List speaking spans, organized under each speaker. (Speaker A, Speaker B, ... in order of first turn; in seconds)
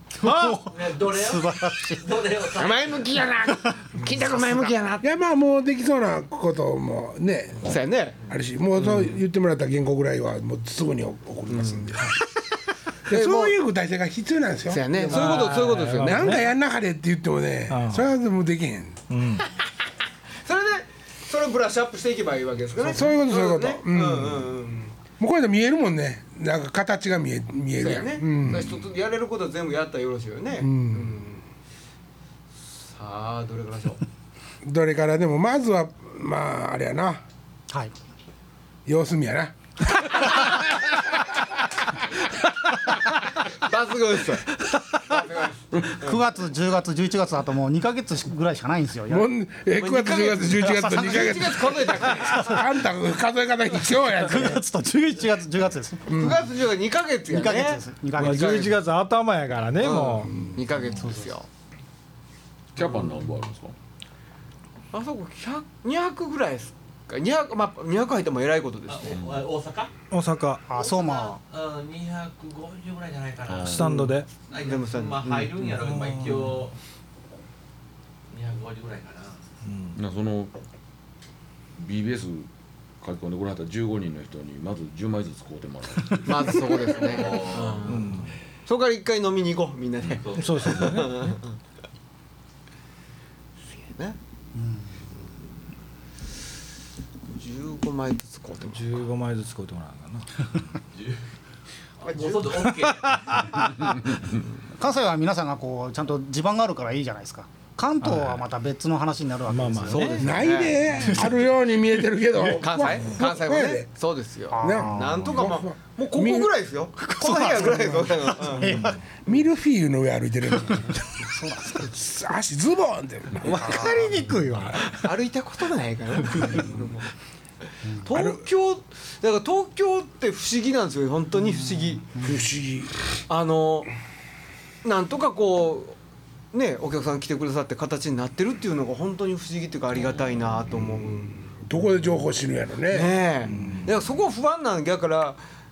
Speaker A: 0.2-2.2, 37.7-38.0, 45.8-49.3, 50.7-52.8, 53.9-56.5, 57.3-58.6, 61.0-61.4, 70.7-71.4, 94.6-94.9, 104.8-110.3, 111.0-111.3, 114.5-115.5, 117.0-119.0, 121.2-121.9, 123.5-124.1, 127.8-128.1, 131.6-132.5
Speaker B: 0.2-0.6, 15.1-16.5, 17.7-18.1, 19.1-19.4, 58.2-60.4, 70.1-70.7, 73.5-74.3, 75.7-76.6, 79.7-80.0, 87.9-88.3, 90.4-91.3, 98.7-100.5, 103.1-103.6, 108.0-108.4, 109.5-110.3, 118.7-119.0, 123.6-125.1
Speaker C: 0.6-3.3, 68.9-69.9, 70.8-76.8, 78.3-79.5, 87.2-88.1, 90.1-90.9, 102.0-103.2
Speaker D: 2.5-5.1, 7.6-9.2, 11.5-12.2, 13.1-13.6, 14.7-16.4, 20.4-25.0, 27.8-31.4, 32.7-34.0, 43.4-46.2, 49.8-52.5, 56.1-58.8, 59.8-61.5, 64.9-69.2, 73.8-75.5, 86.2-91.6, 93.7-94.2, 97.3-99.1, 102.0-102.7, 109.9-111.1, 112.4-118.9, 123.4-124.0, 124.8-127.1, 127.9-132.1, 133.3-133.9, 134.8-136.0, 136.5-141.4, 142.9-145.4
Speaker E: 5.0-7.7, 8.3-12.2, 13.1-19.0, 22.8-24.5, 25.2-28.8, 30.6-31.2, 34.6-37.2, 38.9-40.5, 49.1-54.6, 56.1-56.4, 110.2-113.9, 114.6-116.5, 119.2-121.1, 121.7-123.9, 128.1-128.4, 132.2-132.9, 141.6-143.1
Speaker F: 62.8-63.8, 80.0-80.5, 81.8-82.5, 83.0-87.8